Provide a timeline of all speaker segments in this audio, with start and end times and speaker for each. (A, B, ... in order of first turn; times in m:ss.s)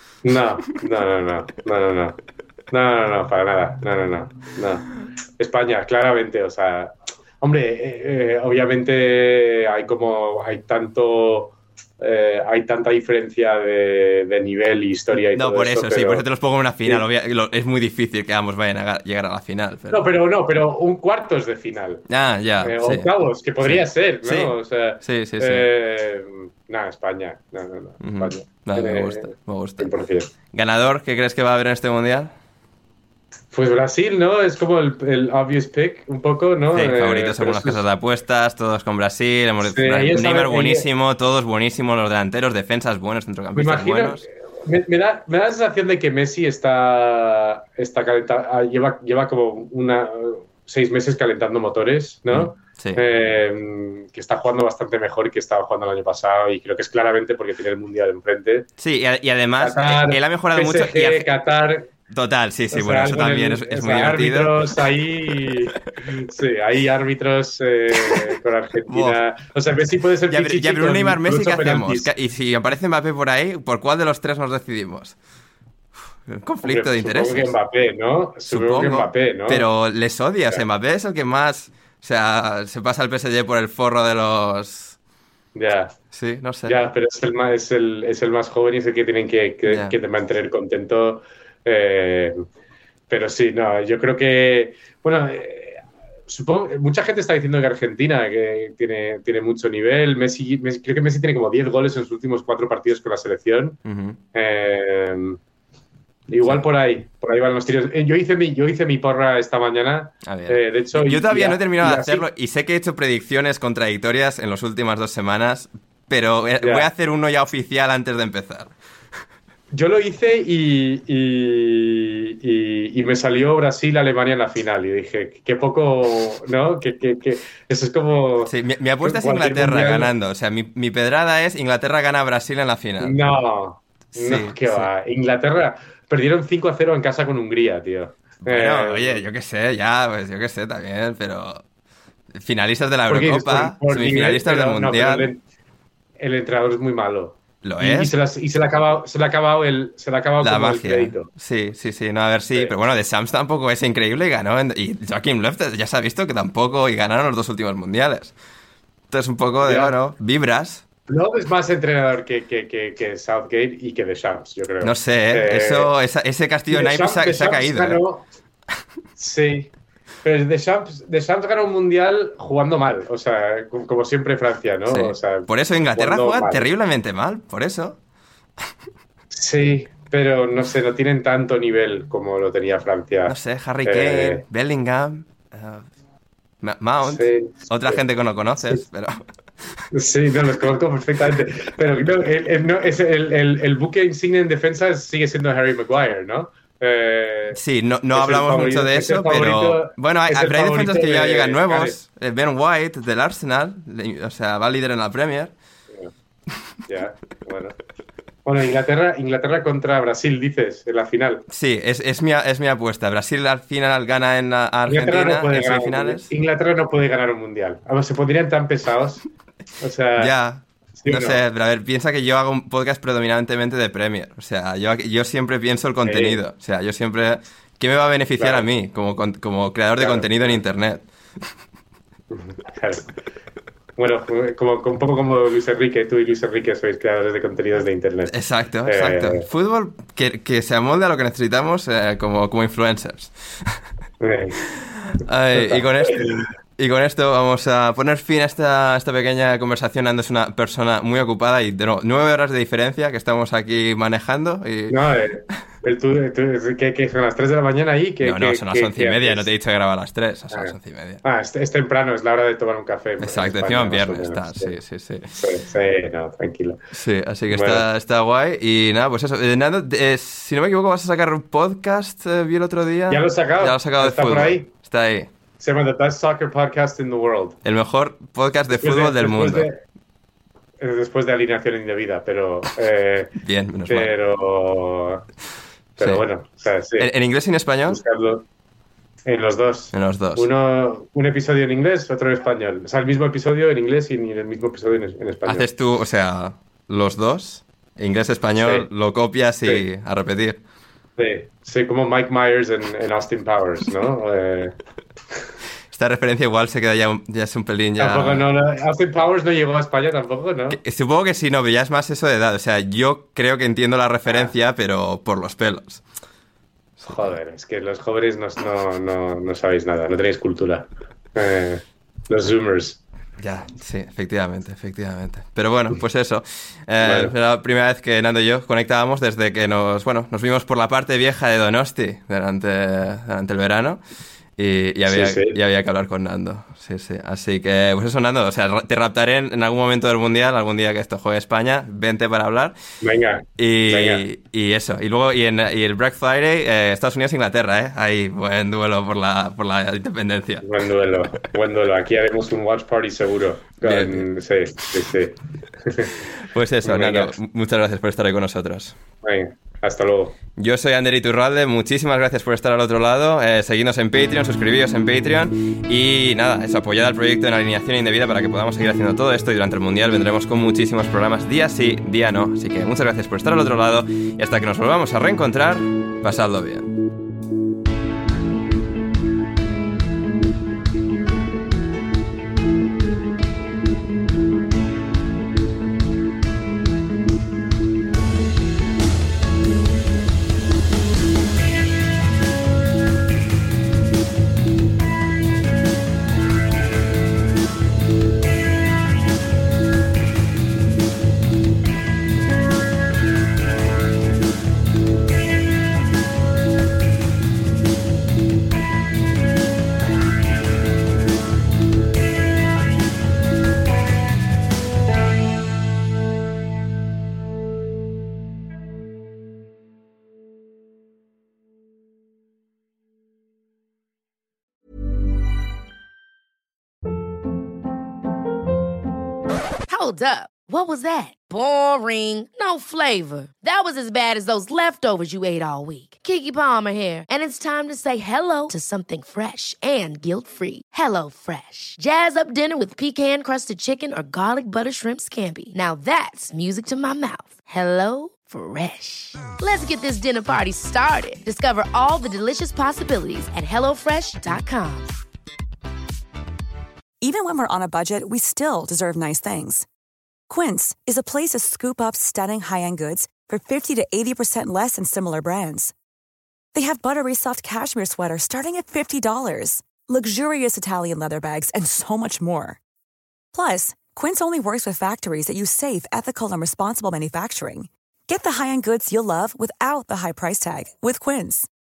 0:00.2-0:02.2 A
0:02.7-0:04.9 A
0:05.4-0:16.2 A
0:15.3-0:20.1 B
0:19.9-0:22.0 A
0:22.1-0:23.1 B
0:22.6-0:30.3 A
0:23.6-0:25.7 B
0:28.0-0:29.9 B
0:30.5-0:32.3 B
0:33.5-0:37.8 A
0:36.7-0:44.2 B
0:39.6-0:40.9 A
0:43.5-0:58.7 A
0:52.3-0:53.0 B
0:58.8-1:01.3 B
0:59.6-1:01.9 A
1:02.1-1:04.7 B
1:02.7-1:12.1 A
1:08.0-1:08.3 B
1:08.9-1:09.2 B
1:10.3-1:15.2 B
1:16.2-1:17.5 B
1:16.6-1:19.6 A
1:18.5-1:25.0 B
1:25.5-1:26.0 A
1:26.1-1:26.8 B
1:26.6-1:32.4 A
1:29.7-1:29.9 B
1:33.1-1:43.8 A
1:43.8-1:44.2 B
1:44.3-1:45.4 A
1:46.3-1:52.2 A
1:50.2-1:58.7 B
1:56.6-1:56.9 A
1:59.7-2:10.1 A
2:08.4-2:13.2 B
2:13.0-2:19.2 A
2:14.1-2:14.9 B
2:18.4-2:21.6 B
2:22.3-2:25.3 B
2:23.1-2:25.4 A
2:26.2-2:31.3 A
2:27.6-2:28.1 B
2:30.4-2:38.3 B
2:39.1-2:40.8 B
2:39.6-2:39.9 A
2:41.1-2:45.9 A
2:44.8-2:48.0 B
2:46.7-2:48.3 A
2:49.2-2:49.7 A
2:50.2-2:56.7 A
2:54.9-2:58.0 B
2:59.3-3:04.4 A
3:03.2-3:05.9 B
3:06.6-3:09.2 B
3:07.0-3:08.0 A
3:09.9-3:17.6 A
3:17.5-3:25.5 B
3:18.1-3:22.0 A
3:26.9-3:27.8 A
3:28.4-3:31.4 A
3:31.5-3:36.3 B
3:34.9-3:39.2 A
3:39.8-3:40.3 A
3:40.2-3:51.0 B
3:41.0-3:41.4 A
3:46.0-3:46.4 A
3:48.4-3:48.6 A
3:50.0-3:50.6 A
3:52.3-3:53.1 A
3:54.0-3:58.3 A
3:58.3-4:03.8 B
3:58.8-3:59.5 A
4:04.2-4:04.6 A
4:05.2-4:06.3 B
4:05.5-4:06.4 A
4:06.8-4:15.0 B
4:14.9-4:19.5 A
4:18.2-4:21.2 B
4:20.5-4:24.8 A
4:23.2-4:25.3 B
4:25.3-4:26.8 A
4:26.9-4:35.3 B
4:27.5-4:27.8 A
4:33.1-4:34.7 A
4:35.6-4:37.6 A
4:37.6-4:39.7 B
4:38.7-4:39.8 A
4:40.8-4:43.4 A
4:43.4-4:44.1 B
4:43.9-4:45.2 A
4:46.0-4:47.1 A
4:47.0-4:48.0 B
4:47.9-4:48.4 A
4:49.2-4:55.7 A
4:49.9-4:50.5 B
4:55.4-5:00.6 B
4:58.6-4:58.9 A
5:01.2-5:04.8 A
5:05.9-5:08.4 B
5:08.0-5:10.8 A
5:10.7-5:16.0 B
5:14.3-5:14.5 A
5:17.0-5:17.4 B
5:17.1-5:23.0 A
5:23.4-5:34.0 B
5:27.0-5:27.3 A
5:34.6-5:42.7 B
5:35.1-5:35.6 A
5:43.0-5:44.2 A
5:43.6-5:50.6 B
5:50.6-5:56.2 A
5:53.8-5:54.2 B
5:56.5-5:59.0 B
5:56.8-5:57.3 A
5:59.2-6:00.4 A
6:00.6-6:16.9 B
7:09.9-7:35.1 C
7:37.2-7:39.8 D
7:40.5-7:45.9 D
7:46.7-7:52.8 D
7:53.5-8:01.7 D